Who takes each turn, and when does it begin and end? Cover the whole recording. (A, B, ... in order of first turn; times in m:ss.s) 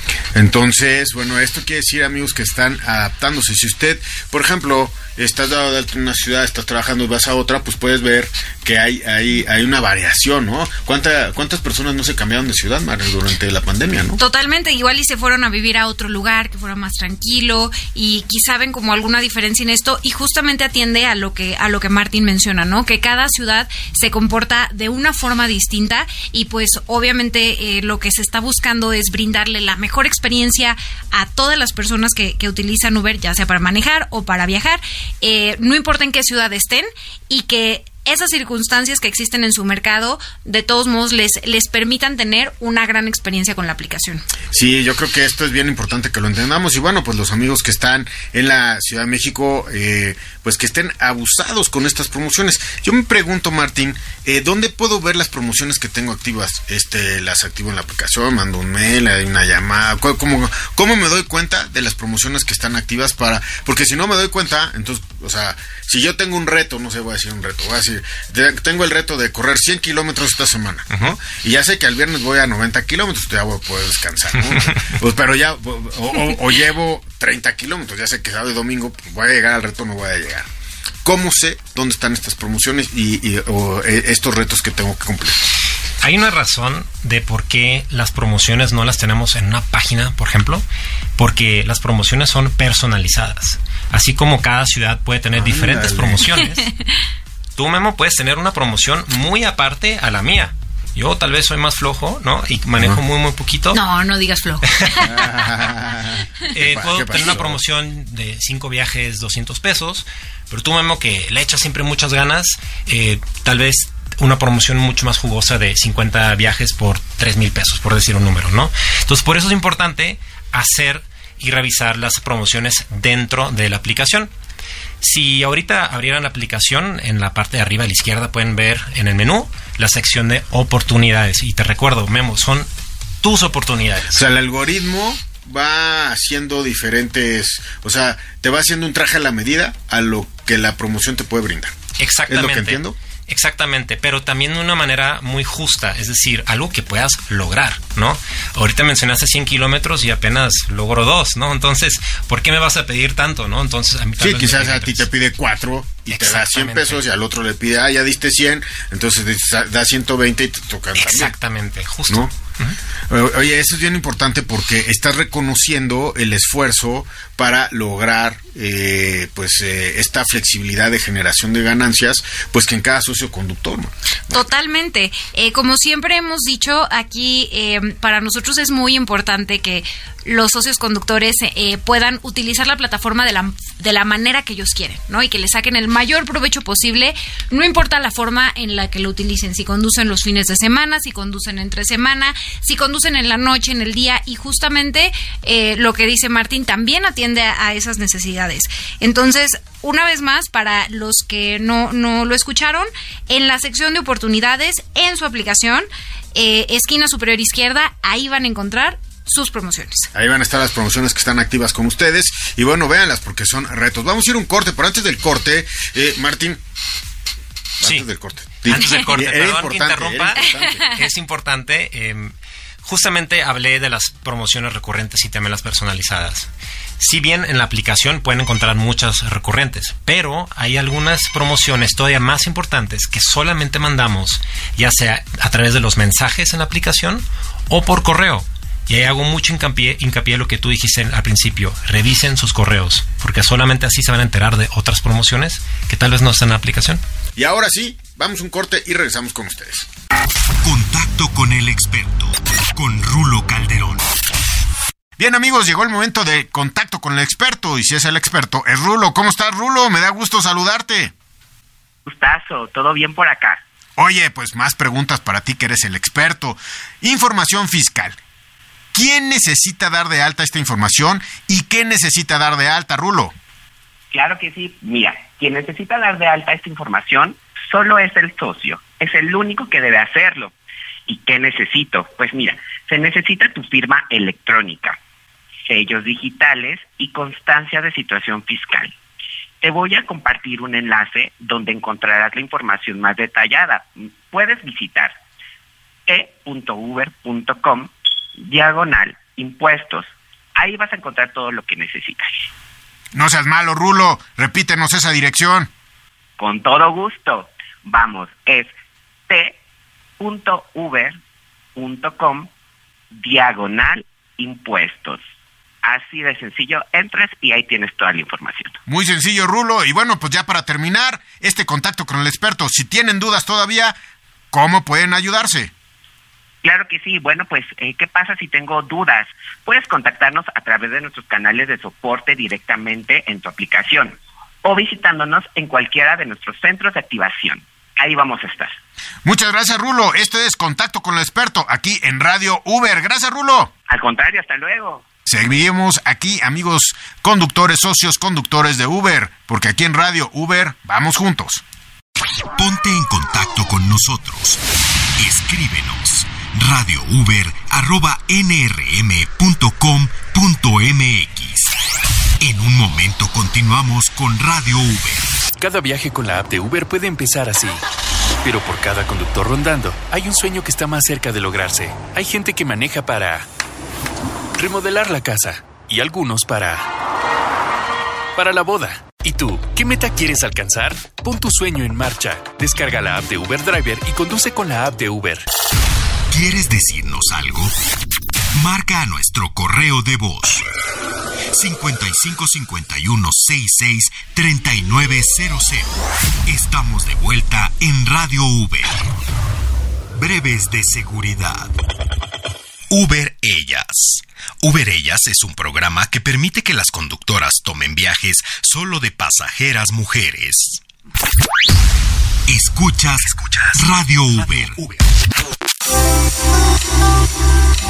0:00.3-0:14.2 A
0:14.2-0:44.2 B
0:44.5-1:20.5 A
1:21.0-1:25.4 A
1:26.0-1:30.6 C
1:31.2-1:36.7 C
1:35.4-1:36.3 A
1:37.6-1:43.8 C
1:43.7-1:45.3 B
1:45.0-1:47.6 A
1:46.5-2:04.3 C
2:05.0-2:12.7 C
2:13.2-2:14.2 C
2:14.1-2:21.8 A
2:22.0-2:35.1 C
2:22.3-2:23.0 A
2:34.2-2:41.3 A
2:36.1-2:37.0 C
2:41.0-2:42.8 C
2:43.1-2:54.4 A
2:54.3-3:30.1 B
3:30.1-3:36.6 A
3:37.8-3:40.9 A
3:38.6-3:46.5 C
3:38.7-3:39.0 B
3:40.4-3:40.9 B
3:47.0-4:07.0 C
4:07.4-4:09.9 A
4:10.6-4:14.0 D
4:15.2-4:21.1 A
4:22.0-4:23.6 E
4:24.0-4:28.2 A
4:28.9-4:33.3 A
4:34.1-4:40.5 E
4:41.1-4:45.0 E
4:45.7-4:48.9 E
4:49.6-4:55.1 E
4:56.1-5:02.4 E
5:03.1-5:05.7 A
5:06.4-5:08.7 E
5:09.3-5:09.6 E
5:10.2-5:11.2 E
5:11.8-5:12.5 E
5:13.1-5:15.2 E
5:15.8-5:18.8 E
5:18.9-5:24.0 A
5:24.5-5:25.7 A
5:26.6-5:38.8 E
5:39.2-5:43.7 A
5:43.9-5:45.0 E
5:45.2-5:51.6 A
5:52.6-5:54.6 D
5:55.2-6:01.7 D
6:02.4-6:05.3 D
6:05.6-6:07.8 F
6:08.4-6:13.5 F
6:14.6-6:16.9 F
6:18.4-6:25.5 F
6:26.3-6:27.7 D
6:28.5-6:30.6 D
6:31.5-6:39.0 D
6:40.2-6:41.7 D
6:42.9-6:50.8 D
6:52.5-6:55.0 D